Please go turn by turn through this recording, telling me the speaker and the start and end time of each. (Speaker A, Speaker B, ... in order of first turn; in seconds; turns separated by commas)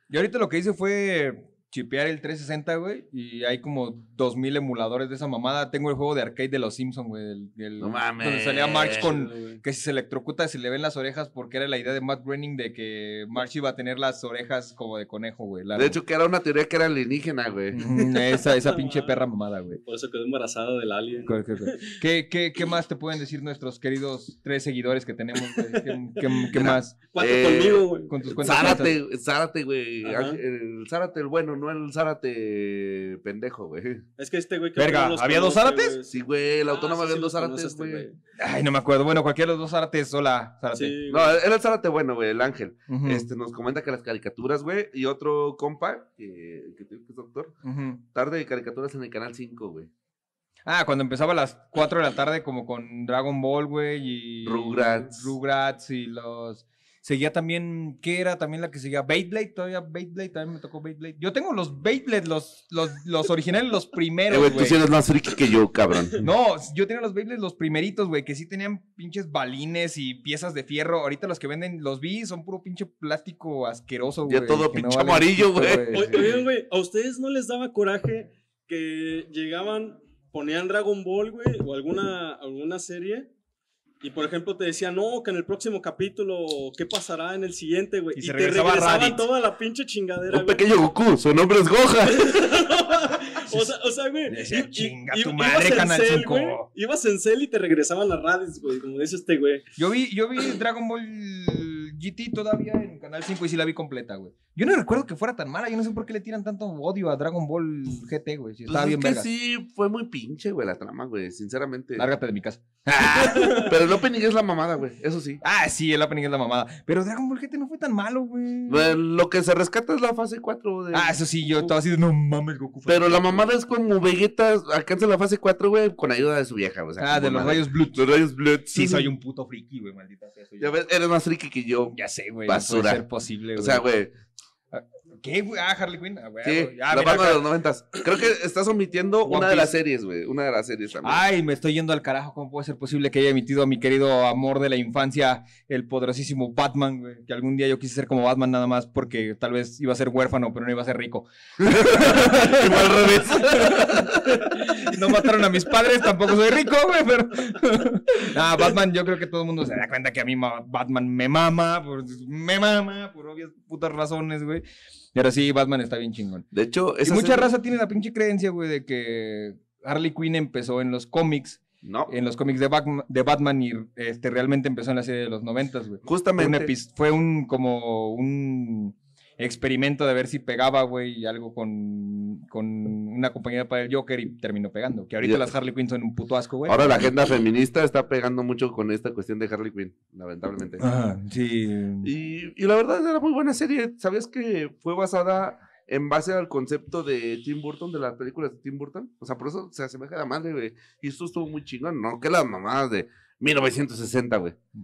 Speaker A: 0.1-16.0, Speaker B: 7.8-9.1, Speaker C: 8.9-9.6, Speaker B: 15.7-17.8, Speaker A: 17.7-19.8, Speaker C: 17.9-19.2, Speaker C: 19.9-22.0, Speaker A: 21.3-26.9, Speaker C: 25.5-26.5, Speaker B: 26.5-27.9, Speaker C: 27.1-28.7, Speaker A: 28.1-28.9, Speaker B: 28.4-34.0, Speaker C: 30.0-30.4, Speaker C: 34.2-38.2, Speaker A: 34.8-36.0, Speaker B: 36.1-38.0, Speaker A: 38.4-41.0, Speaker C: 40.7-41.4, Speaker B: 41.1-47.5, Speaker A: 42.9-43.2, Speaker A: 47.6-48.0, Speaker B: 48.1-49.9, Speaker A: 50.6-64.8, Speaker B: 54.4-55.3, Speaker B: 64.3-66.2, Speaker A: 66.2-76.4, Speaker B: 74.2-76.2, Speaker C: 75.9-83.3, Speaker C: 84.0-90.6, Speaker A: 88.2-89.3, Speaker B: 90.3-92.7, Speaker C: 92.0-99.6, Speaker A: 94.3-96.7, Speaker A: 99.8-109.3, Speaker B: 108.7-112.1, Speaker A: 112.0-113.7, Speaker B: 113.5-115.4, Speaker A: 115.4-119.0, Speaker B: 118.7-121.2, Speaker A: 120.9-123.5, Speaker B: 122.9-129.1, Speaker A: 127.0-128.1, Speaker A: 128.7-130.7, Speaker B: 130.6-133.0, Speaker A: 131.9-133.8, Speaker B: 133.6-134.1, Speaker A: 134.7-137.4, Speaker B: 136.4-141.2, Speaker A: 139.2-139.8, Speaker A: 141.0-164.6, Speaker B: 151.6-154.6, Speaker A: 165.1-166.4, Speaker B: 166.5-167.5, Speaker A: 167.0-187.1, Speaker B: 171.8-172.1, Speaker B: 176.0-176.7, Speaker B: 186.7-190.8, Speaker A: 190.8-192.1, Speaker B: 192.0-204.6